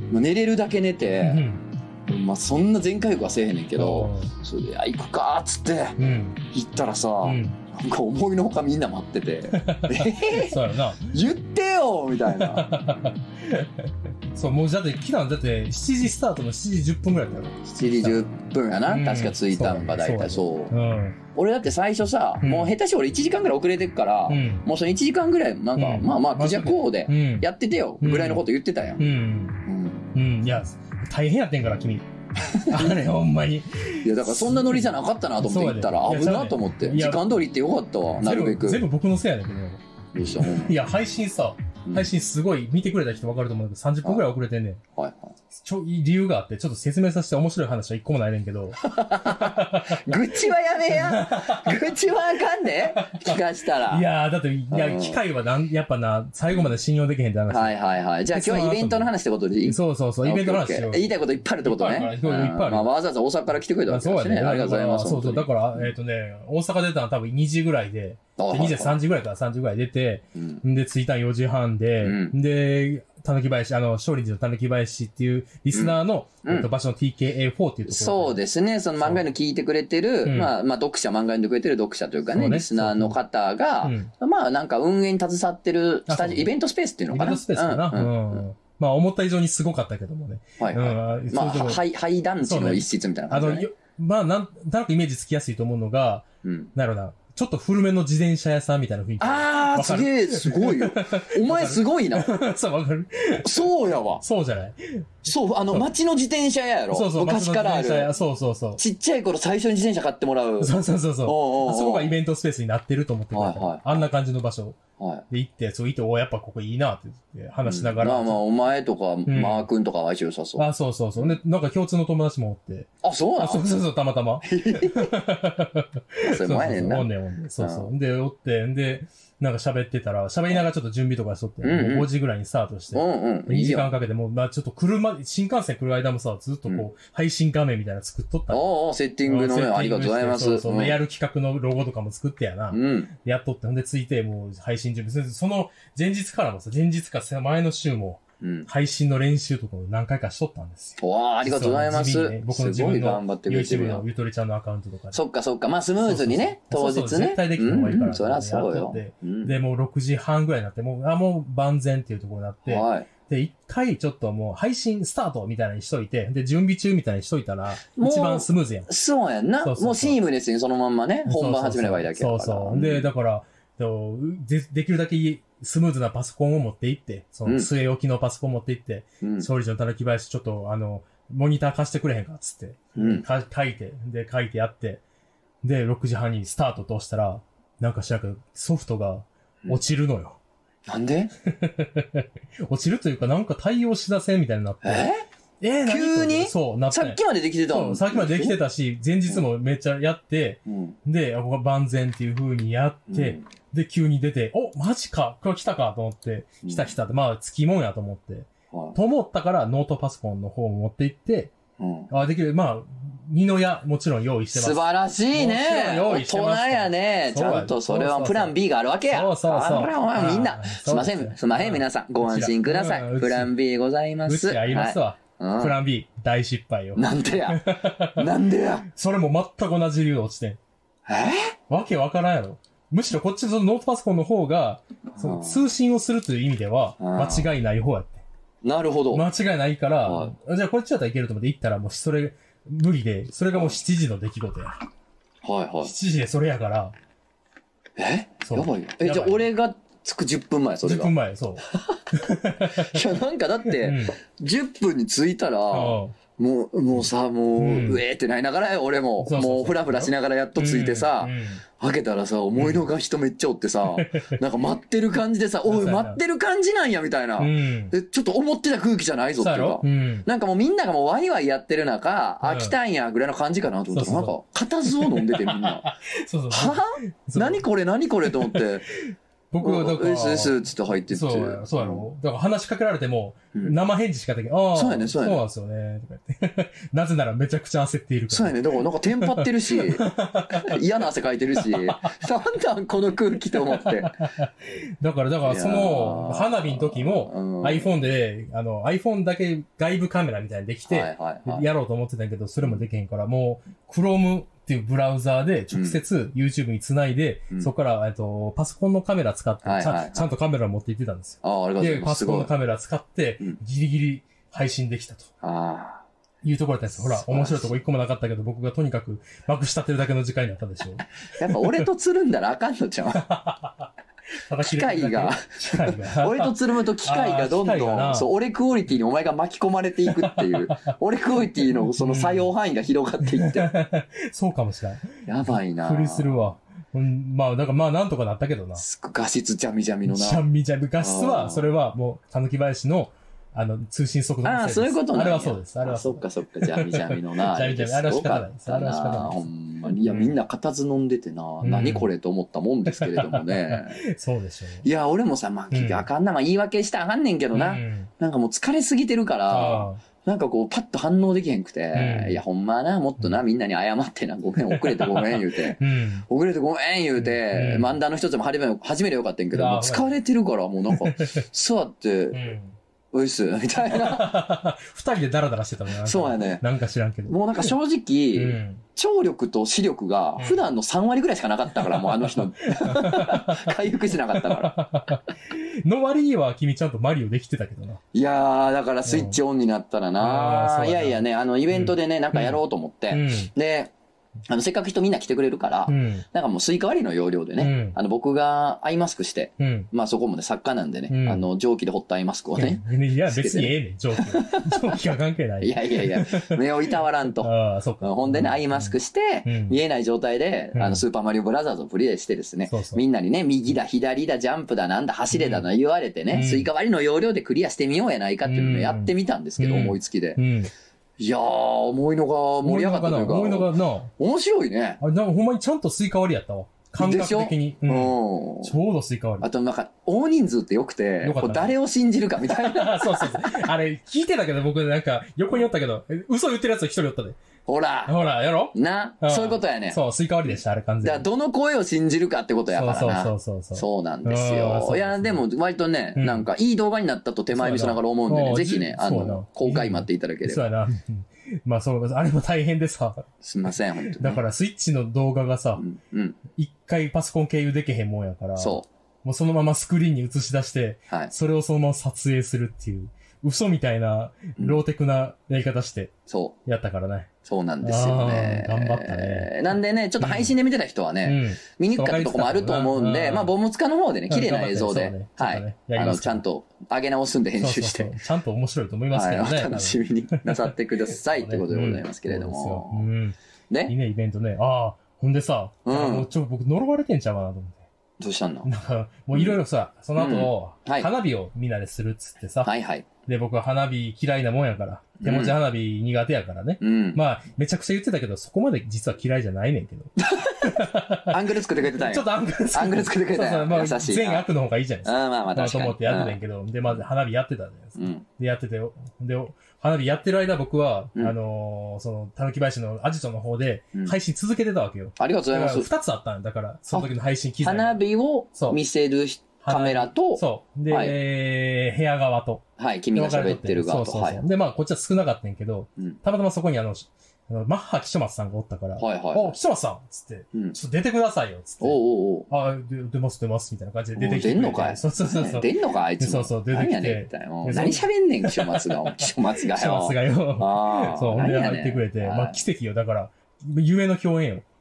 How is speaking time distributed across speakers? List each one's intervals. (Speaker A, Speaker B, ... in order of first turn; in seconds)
Speaker A: 0.1-1.4, 2.1-6.0, 6.5-12.7, 17.6-20.7, 21.3-29.1, 29.6-30.1, 32.4-33.0, 34.0-38.8, 40.1-40.7, 41.8-42.1, 45.0-45.3, 48.8-54.0, 54.7-55.2, 57.5-65.9, 68.4-69.0, 70.3-70.6, 72.0-72.3, 75.7-76.7, 77.9-88.4, 90.6-93.7, 96.4-96.7, 99.2-102.3, 103.4-104.2, 105.2-108.1, 108.8-112.1, 113.3-114.0, 115.0-115.2, 117.6-121.4, 123.0-123.6, 124.4-125.1, 126.2-127.9, 131.6-132.1, 132.9-133.9, 138.5-141.0, 142.7-143.1, 148.4-148.7, 151.0-154.0, 155.1-159.6, 162.7-163.1, 167.9-173.1, 177.4-177.7, 179.2-179.5, 182.9-183.2, 190.9-191.3, 194.8-195.2, 195.8-198.6, 200.7-201.0, 203.1-203.4, 206.6-206.9, 208.7-209.0, 211.8-212.1, 214.5-225.8, 226.9-228.9, 231.1-231.5, 235.1-235.7, 237.0-237.5, 238.6-239.3, 240.0-240.3, 245.4-245.9, 248.0-251.1, 251.7-252.0, 252.7-275.9, 276.5-278.9, 279.6-282.1, 284.7-285.4, 288.3-294.2, 295.4-297.9, 300.9-301.6, 305.7-306.0, 309.6-310.3, 311.4-312.5, 315.4-316.0, 316.9-317.8, 321.4-323.3, 324.6-333.7, 335.2-336.4, 338.8-340.4, 341.0-341.7, 344.4-354.0, 354.8-372.4, 373.1-374.4, 376.0-376.6, 377.3-384.8, 388.1-393.9, 394.5-405.0, 405.6-420.4, 421.2-425.0, 427.0-428.7, 429.4-433.6, 437.6-438.2, 438.7-440.0, 441.0-450.7, 453.4-454.4, 455.8-456.4, 458.6-458.9, 466.3-466.6, 467.4-478.1, 479.1-483.1, 485.9-486.3, 488.2-488.7, 489.3-489.6, 490.1-491.1, 492.6-493.1, 495.2-495.6, 496.8-497.2, 500.2-504.5, 505.0-506.4, 507.9-508.2, 515.2-515.9, 516.9-521.1, 522.8-524.4, 529.0-529.5, 531.8-532.5, 534.1-542.6
Speaker B: 1.2-1.6, 3.8-4.3, 6.0-6.4, 7.2-7.6, 9.5-11.2, 12.3-18.2, 18.9-21.2, 22.4-22.7, 24.3-24.6, 25.8-27.5, 28.0-28.4, 29.0-37.4, 38.2-39.8, 40.3-44.8, 45.5-50.1, 50.9-51.9, 52.8-57.8, 58.3-59.1, 59.6-62.9, 63.9-78.4, 80.2-80.5, 82.3-83.2, 83.8-84.1, 86.1-86.5, 87.1-91.8, 92.4-105.9, 106.9-108.8, 110.6-114.8, 115.3-118.4, 119.3-119.7, 120.6-138.7, 139.3-155.2, 156.0-168.9, 169.6-170.2, 171.2-185.0, 185.6-190.4, 191.4-211.5, 212.1-214.8, 215.3-218.6, 219.1-223.5, 224.2-228.3, 228.9-230.6, 231.7-238.2, 239.1-244.7, 245.8-246.9, 248.4-249.5, 250.8-253.1, 253.6-254.1, 255.7-256.1, 257.6-258.0, 259.2-261.6, 262.6-262.8, 263.9-264.3, 265.7-266.2, 267.4-267.9, 269.4-270.2, 272.4-272.7, 273.9-274.3, 274.9-277.6, 278.2-280.6, 281.1-288.6, 289.1-290.8, 291.6-292.0, 293.5-315.3, 316.4-321.8, 323.2-328.3, 330.1-330.9, 331.8-332.5, 333.2-338.8, 340.1-350.4, 351.6-352.1, 352.9-354.8, 355.7-356.1, 357.5-358.1, 359.5-360.0, 361.9-362.4, 364.7-366.2, 367.2-368.0, 369.5-370.1, 370.9-371.4, 372.3-372.7, 373.9-377.7, 378.3-378.8, 380.4-380.6, 381.7-388.0, 389.0-389.4, 390.2-392.6, 393.1-393.5, 395.9-396.2, 397.6-398.0, 399.6-399.9, 401.1-401.4, 402.6-406.6, 407.4-409.8, 410.7-411.0, 412.7-413.0, 415.3-415.6, 416.3-416.7, 418.4-420.7, 422.6-424.1, 425.0-429.5, 431.2-431.7, 432.5-437.4, 438.1-441.2, 442.7-445.4, 446.1-446.5, 447.5-453.3, 454.1-455.8, 456.6-466.1, 466.6-467.3, 467.8-469.5, 470.2-470.6, 471.2-473.5, 474.3-476.4, 477.6-483.4, 483.9-487.8, 488.6-492.7, 493.2-518.0, 518.5-518.8, 519.6-544.6